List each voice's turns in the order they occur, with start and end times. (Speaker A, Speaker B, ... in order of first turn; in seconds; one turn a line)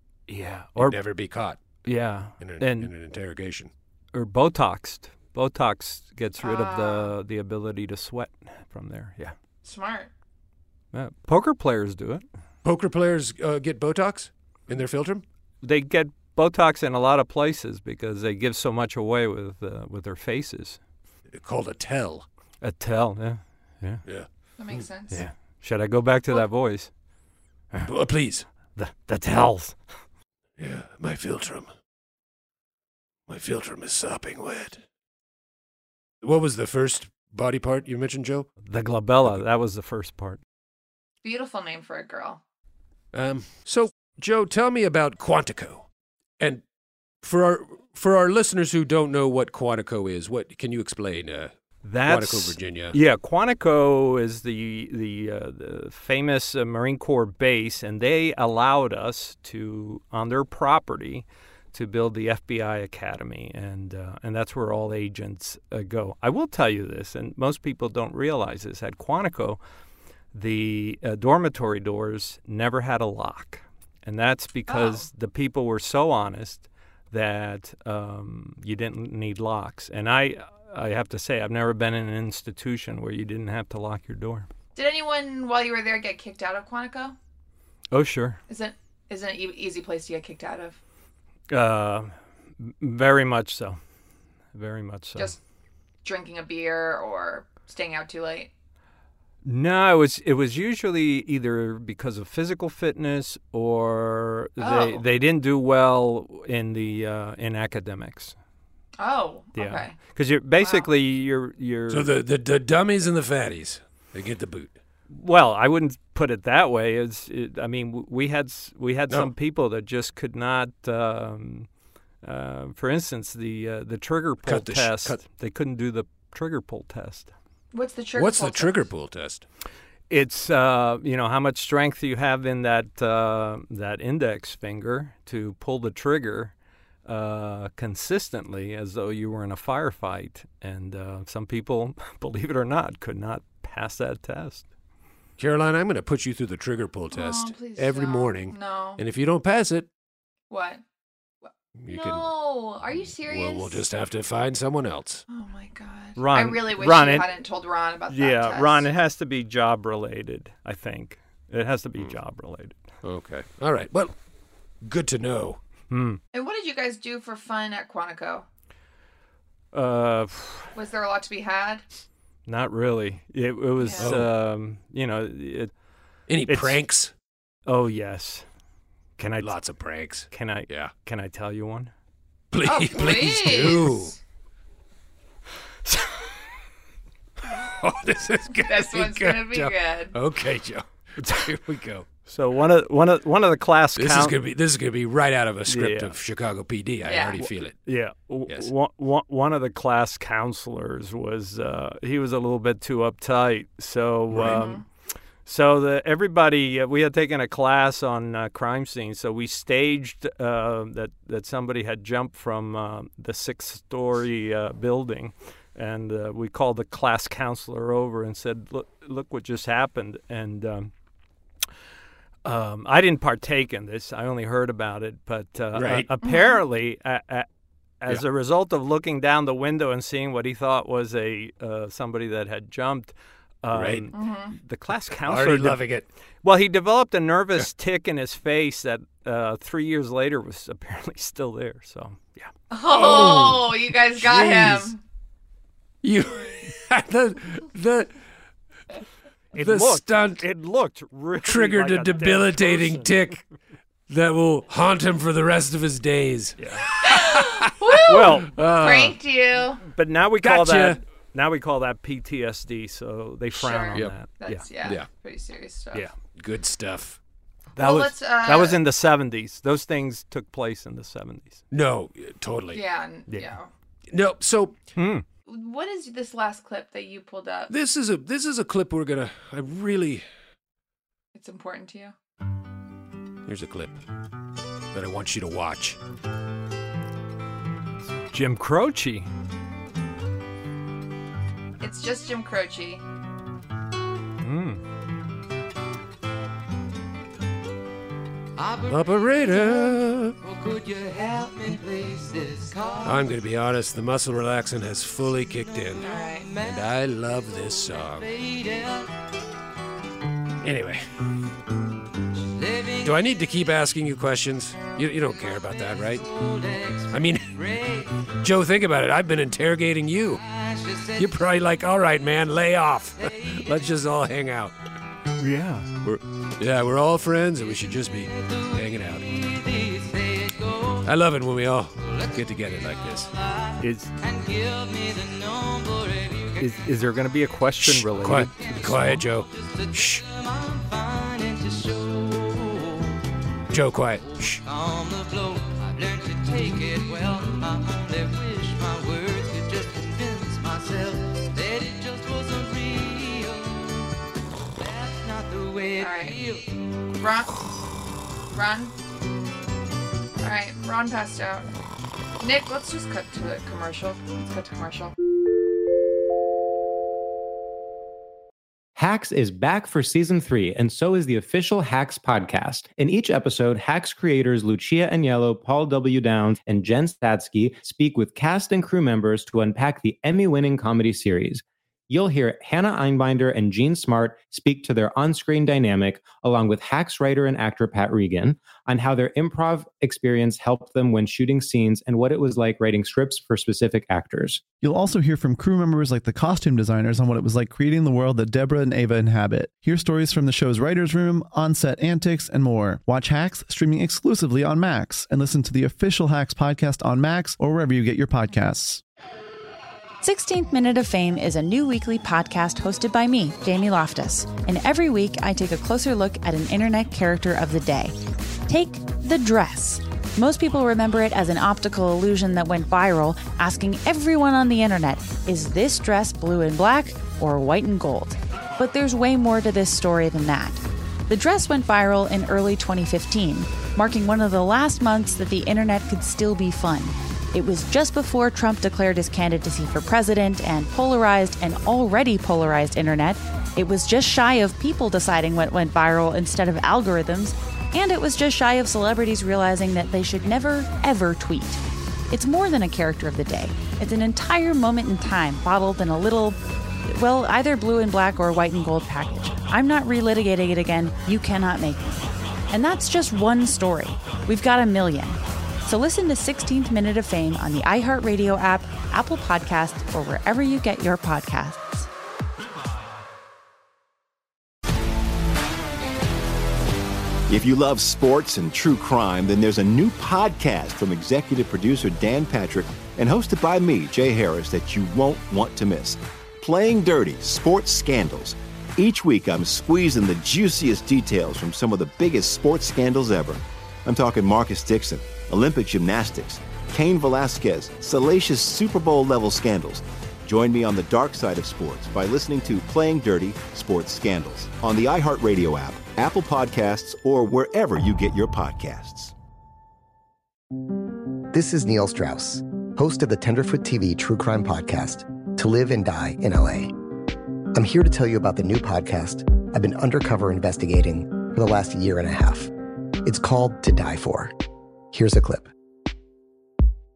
Speaker A: 0.3-1.0
Speaker B: 0.8-1.6
Speaker A: 1.9-2.9
Speaker B: 2.4-3.7
Speaker A: 4.1-9.3
Speaker C: 6.4-7.1
Speaker C: 9.6-10.1
Speaker A: 10.9-12.2
Speaker B: 12.6-15.2
Speaker A: 15.6-20.8
Speaker B: 21.3-22.2
Speaker A: 22.6-24.0
Speaker B: 24.1-24.8
Speaker C: 24.6-25.2
Speaker A: 25.1-26.9
Speaker B: 27.9-28.4
Speaker A: 28.8-29.8
Speaker B: 30.6-31.7
Speaker B: 33.3-34.8
Speaker B: 36.2-38.5
Speaker A: 38.6-40.4
Speaker C: 41.2-42.4
Speaker B: 43.1-45.9
Speaker B: 47.2-51.5
Speaker A: 51.8-69.6
Speaker B: 52.1-53.0
Speaker A: 70.3-84.5
Speaker C: 74.7-75.1
Speaker C: 84.8-87.2
Speaker A: 87.9-88.4
Speaker C: 88.5-90.8
Speaker A: 91.5-93.8
Speaker A: 94.5-95.4
Speaker C: 96.0-98.5
Speaker A: 99.4-108.3
Speaker C: 104.6-105.0
Speaker C: 109.0-110.0
Speaker A: 109.6-112.1
Speaker C: 110.6-110.9
Speaker B: 111.9-114.7
Speaker A: 115.1-121.7
Speaker A: 122.2-127.3
Speaker B: 124.4-125.2
Speaker C: 127.7-128.9
Speaker B: 128.2-129.4
Speaker A: 130.1-136.5
Speaker A: 137.1-144.7
Speaker B: 145.4-149.9
Speaker C: 147.1-149.0
Speaker C: 150.5-150.8
Speaker C: 151.4-153.8
Speaker B: 151.8-152.3
Speaker B: 152.9-155.2
Speaker C: 155.3-158.9
Speaker A: 156.2-157.3
Speaker A: 158.1-162.8
Speaker B: 163.0-164.1
Speaker B: 164.8-165.6
Speaker A: 165.9-166.2
Speaker C: 166.3-168.5
Speaker A: 169.7-170.7
Speaker C: 170.7-171.8
Speaker A: 172.4-175.7
Speaker C: 173.8-174.1
Speaker B: 174.0-174.3
Speaker B: 176.3-177.1
Speaker A: 176.5-176.8
Speaker A: 177.7-178.4
Speaker A: 179.2-179.6
Speaker B: 179.4-180.9
Speaker A: 180.3-181.9
Speaker B: 182.5-184.1
Speaker C: 182.6-184.2
Speaker A: 185.9-186.3
Speaker B: 187.5-192.1
Speaker C: 188.6-190.2
Speaker A: 191.2-191.5
Speaker A: 192.3-194.4
Speaker B: 194.0-197.8
Speaker A: 195.7-196.1
Speaker C: 197.1-197.4
Speaker A: 197.4-204.8
Speaker B: 204.3-204.6
Speaker C: 204.4-204.8
Speaker A: 205.4-220.9
Speaker A: 222.4-227.5
Speaker B: 225.7-226.1
Speaker C: 226.2-226.6
Speaker A: 228.0-235.8
Speaker B: 233.7-234.1
Speaker C: 234.1-234.6
Speaker B: 235.2-236.1
Speaker A: 236.4-242.5
Speaker C: 242.7-245.0
Speaker B: 242.9-244.9
Speaker B: 246.0-248.1
Speaker A: 249.5-253.4
Speaker B: 249.6-250.4
Speaker B: 251.4-253.4
Speaker B: 254.1-259.2
Speaker A: 256.6-256.9
Speaker C: 257.1-259.8
Speaker A: 258.1-258.5
Speaker A: 259.9-264.7
Speaker B: 260.4-261.0
Speaker C: 263.5-266.1
Speaker B: 264.8-265.1
Speaker B: 266.4-267.2
Speaker C: 267.8-268.8
Speaker A: 267.8-271.6
Speaker B: 271.7-272.8
Speaker C: 272.7-273.7
Speaker A: 273.3-273.5
Speaker B: 274.1-274.8
Speaker A: 274.9-275.2
Speaker C: 275.5-277.7
Speaker B: 277.7-280.2
Speaker C: 281.3-282.1
Speaker B: 283.4-284.0
Speaker B: 284.9-286.0
Speaker A: 288.3-289.3
Speaker C: 291.8-293.0
Speaker A: 294.4-294.8
Speaker D: 298.6-303.3
Speaker B: 298.9-300.4
Speaker B: 303.0-308.3
Speaker D: 305.6-306.9
Speaker C: 306.1-306.5
Speaker D: 307.9-309.1
Speaker B: 310.6-311.0
Speaker D: 312.6-313.2
Speaker B: 313.0-316.3
Speaker D: 316.1-318.1
Speaker B: 317.1-317.5
Speaker B: 318.4-320.4
Speaker D: 320.4-321.4
Speaker B: 321.2-324.7
Speaker D: 323.2-323.7
Speaker A: 325.4-325.9
Speaker B: 326.0-329.2
Speaker D: 327.7-331.1
Speaker B: 331.1-333.3
Speaker D: 332.0-336.9
Speaker A: 333.8-334.1
Speaker A: 336.6-339.2
Speaker B: 337.8-340.2
Speaker D: 338.5-343.1
Speaker B: 343.7-344.6
Speaker D: 344.2-354.1
Speaker D: 354.8-356.8
Speaker C: 356.0-356.4
Speaker C: 357.2-357.6
Speaker C: 358.5-358.9
Speaker C: 360.4-361.7
Speaker C: 362.4-365.1
Speaker E: 368.9-394.6
Speaker F: 394.8-409.0
Speaker G: 410.2-418.1
Speaker G: 418.7-472.1
Speaker H: 477.5-509.3
Speaker I: 511.5-516.9
Speaker I: 517.7-522.7
Speaker I: 523.2-524.5
Speaker I: 525.1-525.7